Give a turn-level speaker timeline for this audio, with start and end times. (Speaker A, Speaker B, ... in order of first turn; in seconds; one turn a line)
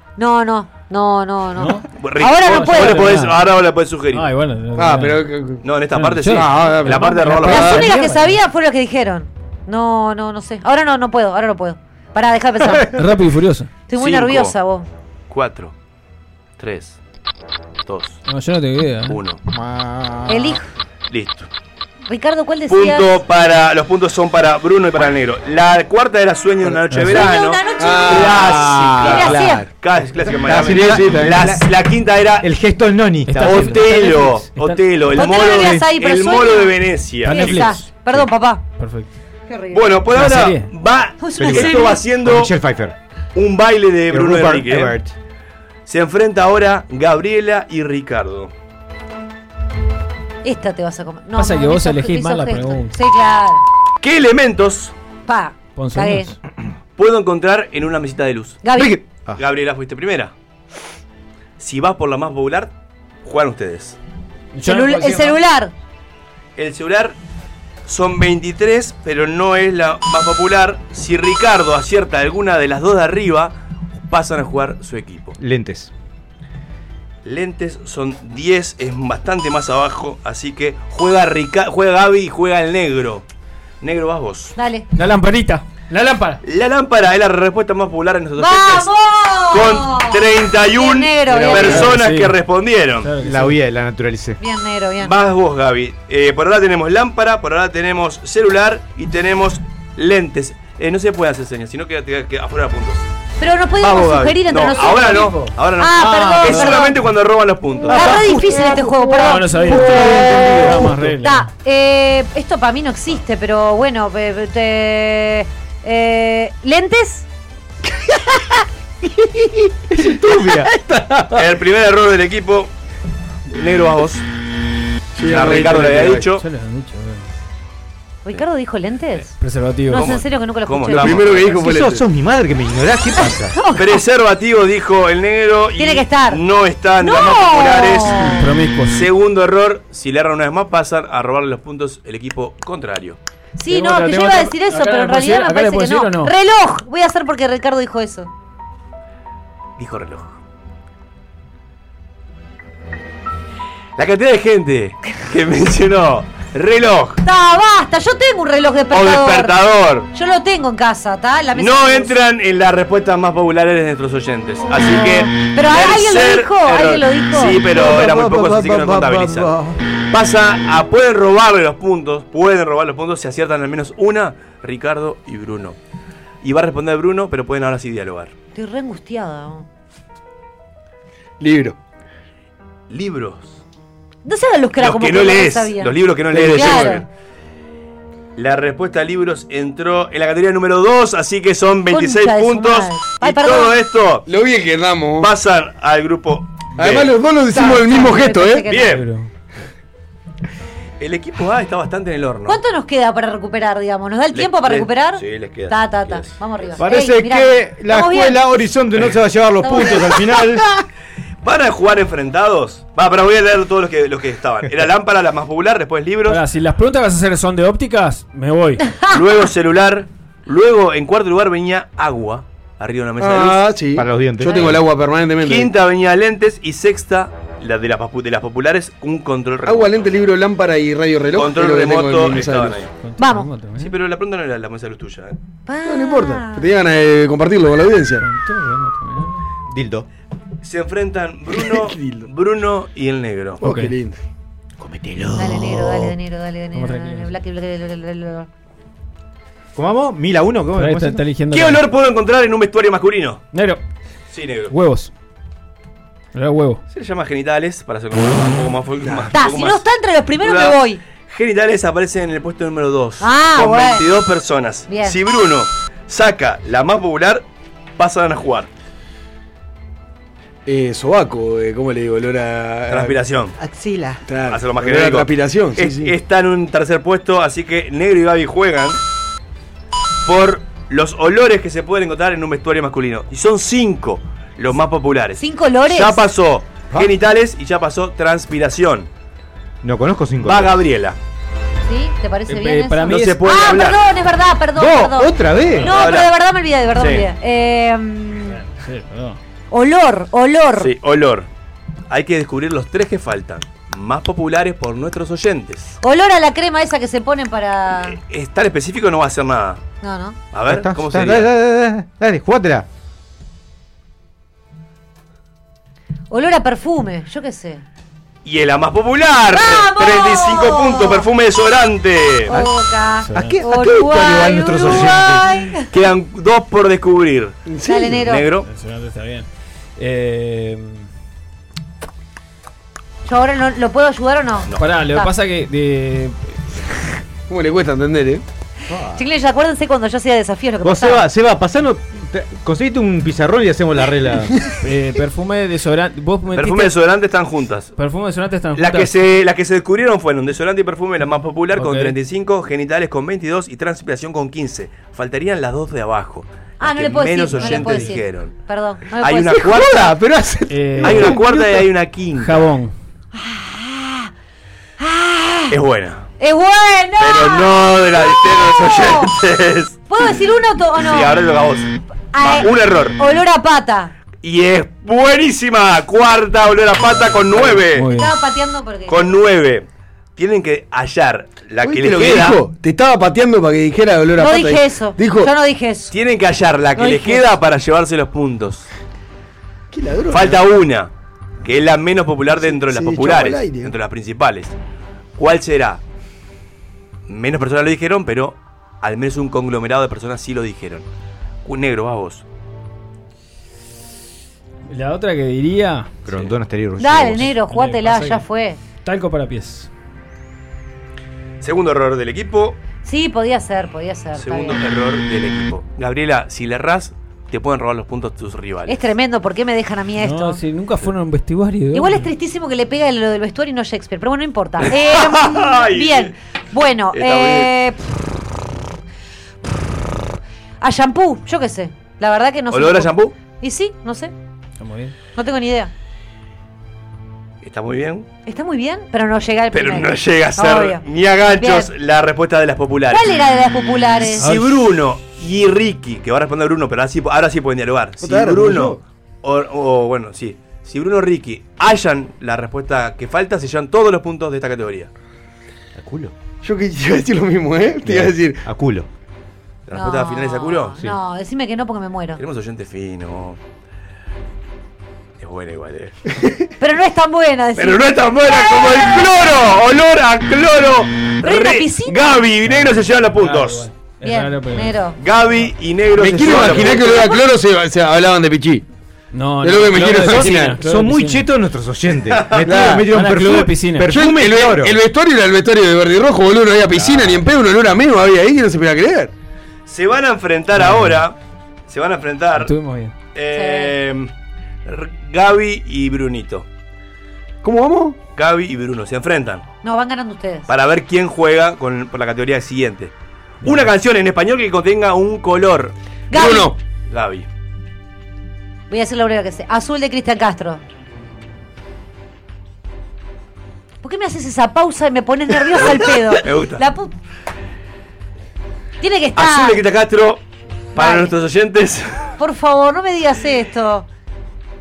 Speaker A: 0.2-3.2
Speaker B: 1.6-3.5
Speaker C: 1.9-4.3
Speaker B: 4.1-5.3
Speaker D: 4.8-5.6
Speaker C: 5.6-7.8
Speaker B: 5.9-8.4
Speaker D: 6.3-7.9
Speaker A: 7.4-13.0
Speaker B: 12.8-13.7
Speaker A: 13.9-14.9
Speaker C: 13.9-14.6
Speaker C: 15.3-15.7
Speaker C: 16.6-17.0
Speaker C: 17.8-18.2
Speaker B: 18.2-19.2
Speaker C: 19.1-19.4
Speaker E: 19.5-20.5
Speaker A: 20.3-20.6
Speaker C: 21.1-21.5
Speaker A: 22.1-23.2
Speaker C: 22.7-32.5
Speaker B: 26.9-27.3
Speaker A: 27.0-29.6
Speaker D: 27.8-29.7
Speaker E: 30.2-31.6
Speaker D: 30.4-31.5
Speaker E: 32.4-33.8
Speaker B: 33.2-35.1
Speaker C: 33.4-37.8
Speaker A: 35.1-38.6
Speaker B: 37.2-39.1
Speaker A: 39.5-39.9
Speaker C: 39.7-42.5
Speaker B: 40.1-40.7
Speaker A: 41.2-42.0
Speaker E: 41.4-42.9
Speaker C: 43.3-45.0
Speaker E: 44.1-45.1
Speaker C: 45.9-48.5
Speaker A: 50.4-53.6
Speaker B: 51.4-53.0
Speaker C: 54.0-54.9
Speaker A: 55.2-56.3
Speaker B: 55.8-56.4
Speaker C: 57.0-58.6
Speaker A: 58.6-59.0
Speaker E: 58.8-59.3
Speaker C: 59.3-60.3
Speaker C: 61.6-62.7
Speaker C: 63.2-64.0
Speaker B: 64.5-65.4
Speaker A: 64.6-65.7
Speaker C: 66.5-67.2
Speaker C: 67.8-73.6
Speaker C: 74.1-75.4
Speaker E: 75.4-75.9
Speaker C: 77.2-83.2
Speaker C: 83.8-84.5
Speaker A: 84.5-84.9
Speaker B: 84.9-86.4
Speaker C: 86.4-88.9
Speaker A: 88.4-91.9
Speaker C: 89.5-93.1
Speaker B: 91.5-92.4
Speaker B: 93.0-93.6
Speaker E: 93.2-94.4
Speaker A: 94.4-95.1
Speaker C: 95.0-103.1
Speaker A: 103.4-107.0
Speaker C: 103.8-108.2
Speaker B: 104.8-105.5
Speaker E: 106.0-106.7
Speaker A: 107.9-117.2
Speaker B: 109.1-111.5
Speaker E: 110.1-110.8
Speaker D: 119.9-121.4
Speaker E: 120.0-120.7
Speaker C: 121.3-122.7
Speaker C: 123.5-124.2
Speaker D: 125.2-126.3
Speaker C: 125.2-126.4
Speaker B: 126.3-127.3
Speaker A: 128.2-129.3
Speaker B: 129.4-130.1
Speaker A: 129.9-131.2
Speaker C: 129.9-131.6
Speaker D: 130.9-132.0
Speaker E: 131.5-133.6
Speaker A: 133.2-134.0
Speaker C: 133.7-138.2
Speaker A: 135.8-136.4
Speaker A: 137.0-138.5
Speaker B: 138.2-139.1
Speaker C: 138.9-143.2
Speaker A: 143.6-148.3
Speaker B: 143.7-146.3
Speaker C: 149.8-150.3
Speaker C: 153.9-157.2
Speaker A: 157.2-159.6
Speaker C: 158.9-160.1
Speaker A: 160.1-162.2
Speaker C: 161.6-169.5
Speaker A: 164.7-167.6
Speaker D: 167.6-169.8
Speaker C: 170.1-175.8
Speaker C: 176.4-178.3
Speaker A: 178.5-179.7
Speaker D: 181.4-181.8
Speaker C: 182.9-183.6
Speaker A: 184.2-187.0
Speaker C: 184.8-187.1
Speaker D: 186.3-187.0
Speaker C: 188.3-194.2
Speaker A: 191.9-193.8
Speaker D: 194.3-195.3
Speaker C: 195.2-197.1
Speaker D: 196.8-198.7
Speaker A: 197.5-199.0
Speaker C: 198.7-199.0
Speaker B: 198.8-199.3
Speaker C: 201.0-202.6
Speaker A: 202.5-208.6
Speaker C: 204.3-206.3
Speaker E: 206.8-210.7
Speaker A: 209.6-210.2
Speaker C: 211.4-216.4
Speaker B: 216.2-219.0
Speaker C: 219.1-223.7
Speaker D: 223.2-225.7
Speaker E: 223.9-224.7
Speaker A: 224.4-224.7
Speaker C: 225.4-230.1
Speaker D: 229.6-232.8
Speaker C: 231.3-232.9
Speaker B: 233.0-233.9
Speaker A: 233.2-233.5
Speaker C: 233.8-235.4
Speaker A: 235.7-236.7
Speaker D: 235.8-238.2
Speaker B: 238.2-239.4
Speaker E: 239.7-240.1
Speaker C: 240.6-243.6
Speaker D: 241.5-242.3
Speaker B: 243.6-243.9
Speaker D: 243.6-244.2
Speaker E: 244.8-245.6
Speaker A: 245.3-248.5
Speaker B: 246.7-247.3
Speaker E: 249.7-251.2
Speaker B: 250.7-251.9
Speaker C: 251.5-253.4
Speaker B: 253.5-253.8
Speaker C: 254.3-254.7
Speaker B: 254.7-255.1
Speaker B: 256.3-256.8
Speaker C: 256.9-259.9
Speaker A: 259.3-261.0
Speaker C: 260.4-267.4
Speaker A: 263.2-264.1
Speaker A: 264.9-265.2
Speaker C: 268.0-268.7
Speaker D: 270.6-273.2
Speaker C: 272.9-273.5
Speaker E: 273.6-274.2
Speaker D: 274.2-276.1
Speaker C: 274.5-279.0
Speaker C: 280.2-289.1
Speaker A: 285.4-286.3
Speaker E: 289.8-290.8
Speaker C: 290.4-291.2
Speaker A: 291.9-298.6
Speaker B: 292.5-293.5
Speaker C: 293.1-294.0
Speaker E: 294.8-295.9
Speaker C: 295.8-296.3
Speaker C: 296.9-297.3
Speaker B: 298.4-299.4
Speaker A: 299.7-300.9
Speaker C: 300.8-301.5
Speaker C: 302.1-305.9
Speaker A: 306.0-308.2
Speaker C: 308.0-309.8
Speaker A: 310.0-310.4
Speaker C: 310.5-311.5
Speaker E: 310.6-312.9
Speaker A: 316.3-317.8
Speaker C: 318.4-322.5
Speaker A: 319.5-321.3
Speaker A: 322.5-325.9
Speaker B: 323.2-323.6
Speaker E: 323.3-325.7
Speaker C: 325.9-327.6
Speaker D: 327.7-328.2
Speaker A: 327.8-328.5
Speaker C: 328.2-328.7
Speaker B: 328.6-331.1
Speaker A: 333.2-335.3
Speaker B: 334.8-336.6
Speaker D: 337.5-338.4
Speaker E: 338.9-339.2
Speaker A: 339.1-341.2
Speaker E: 340.8-344.7
Speaker B: 344.8-346.9
Speaker C: 346.5-347.9
Speaker B: 348.0-349.1
Speaker C: 348.7-358.5
Speaker B: 351.7-352.2
Speaker A: 356.8-359.7
Speaker B: 357.7-358.0
Speaker C: 359.2-360.1
Speaker D: 359.6-361.8
Speaker B: 360.7-361.5
Speaker C: 361.0-362.7
Speaker B: 362.3-362.9
Speaker A: 363.3-364.3
Speaker A: 365.0-365.8
Speaker C: 365.7-366.2
Speaker A: 366.4-369.3
Speaker C: 367.2-370.0
Speaker A: 370.1-371.4
Speaker C: 370.9-373.2
Speaker A: 372.3-374.1
Speaker C: 374.4-378.1
Speaker B: 377.2-378.3
Speaker A: 378.1-379.3
Speaker C: 379.1-382.6
Speaker D: 381.8-385.5
Speaker A: 384.4-386.1
Speaker C: 386.1-388.9
Speaker A: 386.9-387.5
Speaker D: 389.9-390.6
Speaker C: 390.3-391.1
Speaker C: 391.6-394.7
Speaker D: 392.5-393.9
Speaker C: 395.4-396.0
Speaker C: 397.3-401.1
Speaker C: 401.6-402.4
Speaker B: 404.9-406.2
Speaker E: 406.3-407.5
Speaker A: 407.0-408.8
Speaker B: 407.5-408.4
Speaker B: 409.0-409.9
Speaker C: 411.6-412.8
Speaker A: 413.0-414.8
Speaker C: 414.4-419.1
Speaker A: 418.9-420.6
Speaker B: 420.2-422.3
Speaker A: 421.9-427.9
Speaker C: 424.9-426.3
Speaker C: 427.1-427.7
Speaker A: 430.8-434.3
Speaker C: 432.7-433.3
Speaker B: 434.8-435.1
Speaker A: 435.4-435.9
Speaker C: 437.6-438.3
Speaker A: 438.4-441.9
Speaker C: 439.7-443.3
Speaker A: 443.1-444.5
Speaker C: 444.4-455.1
Speaker B: 444.4-444.8
Speaker D: 448.2-449.0
Speaker E: 455.9-456.3
Speaker D: 456.6-458.6
Speaker E: 458.0-459.1
Speaker C: 459.9-461.0
Speaker A: 459.9-462.4
Speaker C: 462.4-463.6
Speaker C: 465.4-466.1
Speaker A: 466.8-469.3
Speaker C: 467.8-473.9
Speaker A: 471.4-472.2
Speaker B: 472.6-475.0
Speaker A: 474.2-475.2
Speaker C: 475.2-477.2
Speaker D: 476.1-478.9
Speaker A: 476.9-477.4
Speaker B: 479.3-481.5
Speaker D: 479.6-480.8
Speaker E: 480.3-485.0
Speaker C: 482.3-482.7
Speaker D: 482.6-483.1
Speaker B: 483.0-484.1
Speaker D: 484.1-489.3
Speaker E: 486.9-487.4
Speaker C: 489.9-491.4
Speaker B: 490.7-491.2
Speaker C: 491.9-492.7
Speaker B: 492.5-493.1
Speaker C: 493.3-494.3
Speaker A: 493.5-493.9
Speaker C: 494.9-496.6
Speaker D: 497.6-498.2
Speaker C: 498.4-499.6
Speaker A: 499.8-500.7
Speaker C: 500.7-505.9
Speaker A: 506.3-506.7
Speaker D: 506.3-506.8
Speaker C: 507.1-507.5
Speaker A: 508.9-510.8
Speaker A: 514.0-517.1
Speaker C: 515.8-516.8
Speaker A: 519.0-519.8
Speaker C: 519.3-520.4
Speaker C: 520.9-522.3
Speaker A: 521.0-521.3
Speaker A: 522.4-524.0